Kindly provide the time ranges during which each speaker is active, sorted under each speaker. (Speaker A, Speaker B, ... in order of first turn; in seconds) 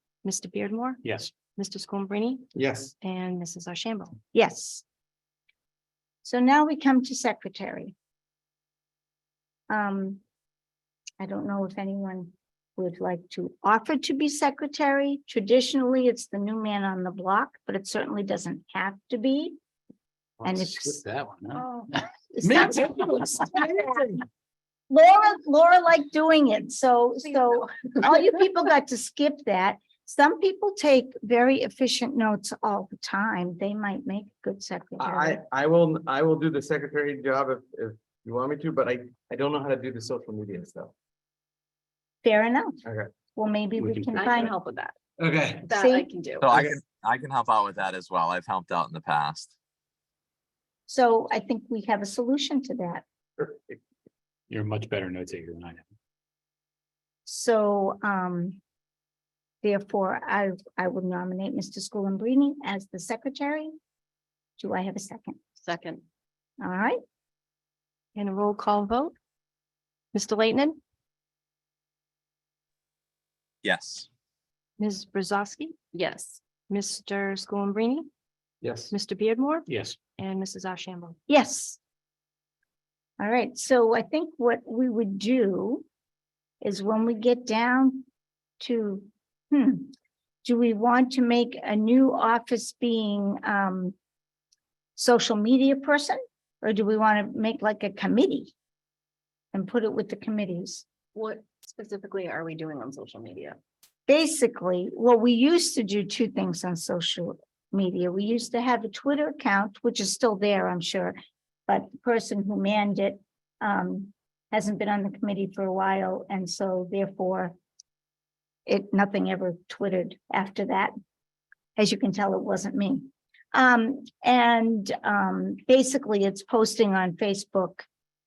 Speaker A: 0.2-1.0, 1.6-2.5, 3.0-4.2, 68.2-69.1, 70.1-70.8, 74.8-78.1, 78.9-81.2
Speaker B: 1.0-1.3, 20.4-23.3, 43.8-44.5, 54.5-55.8, 79.7-80.0
Speaker C: 2.5-2.9, 35.0-40.9, 42.9-43.1, 45.2-45.7, 78.6-78.9
Speaker D: 4.3-4.8, 6.2-7.9, 9.7-10.2, 11.2-19.6, 20.4-21.0, 21.6-24.1, 24.9-35.4, 42.2-42.8, 43.4-44.5, 45.7-46.1, 50.9-53.0, 57.3-58.6, 59.6-63.7, 64.6-65.4, 66.6-67.0, 81.3-81.8, 83.2-85.8, 86.6-88.0, 88.6-89.9, 90.4-94.0, 95.0-98.5, 99.5-100.9, 104.1-111.2, 111.7-117.5, 118.7-120.9, 121.8-127.9
Speaker E: 44.1-45.0, 45.6-46.5, 65.6-66.0, 76.0-76.4, 101.1-103.6
Speaker F: 46.4-49.5, 73.6-74.1